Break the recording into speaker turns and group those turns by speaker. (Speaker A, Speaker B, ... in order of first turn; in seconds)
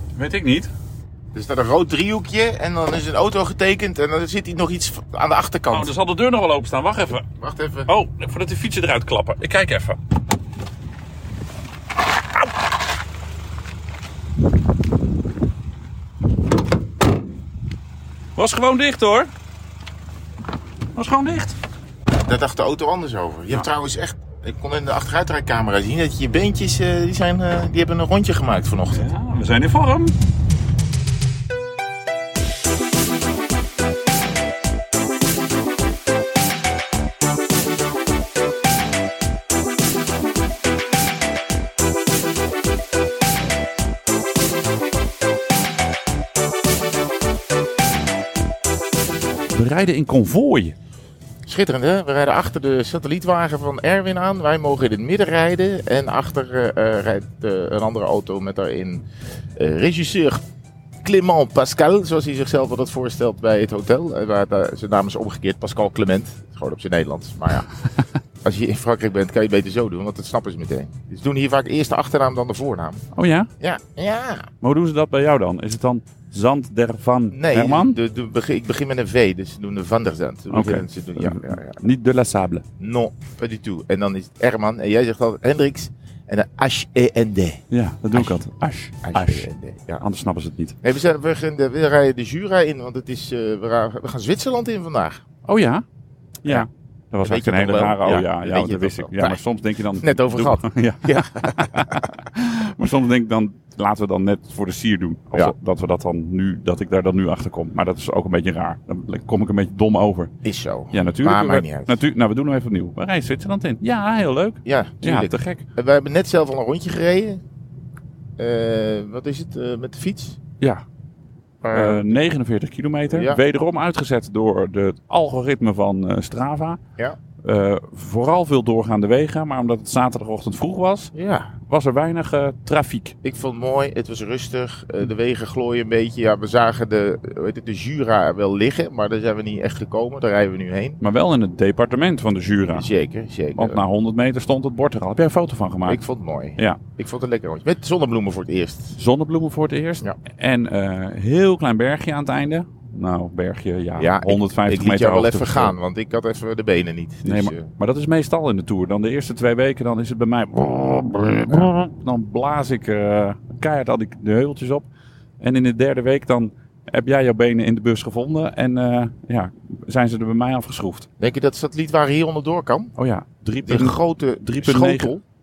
Speaker A: 0.1-0.7, 5.7-7.3, 7.9-10.0, 18.4-19.3, 20.9-21.6, 28.9-30.2, 49.5-50.8, 73.1-73.5, 74.6-78.0, 80.5-82.6, 87.7-89.5, 90.0-90.8, 95.5-95.8, 96.5-110.3, 110.9-115.6, 120.6-120.8, 121.7-126.8, 127.4-131.1, 131.7-133.2, 141.0-142.9, 143.6-146.0, 149.0-155.7, 157.2-164.9, 165.4-171.1, 173.0-175.2
Speaker B: 1.3-5.9, 7.4-7.9, 22.2-29.1, 51.5-59.0, 59.6-60.4, 61.0-67.7, 68.4-73.0, 73.6-74.5, 77.3-81.8, 82.8-87.6, 88.1-88.4, 89.0-90.0, 90.8-95.2, 97.2-99.4, 99.9-102.0, 110.4-112.0, 114.7-117.4, 118.4-120.4, 121.6-122.2, 123.1-123.4, 131.1-131.6, 133.2-141.0, 142.7-143.8, 145.8-149.0, 154.0-157.7, 171.2-172.9, 173.7-175.2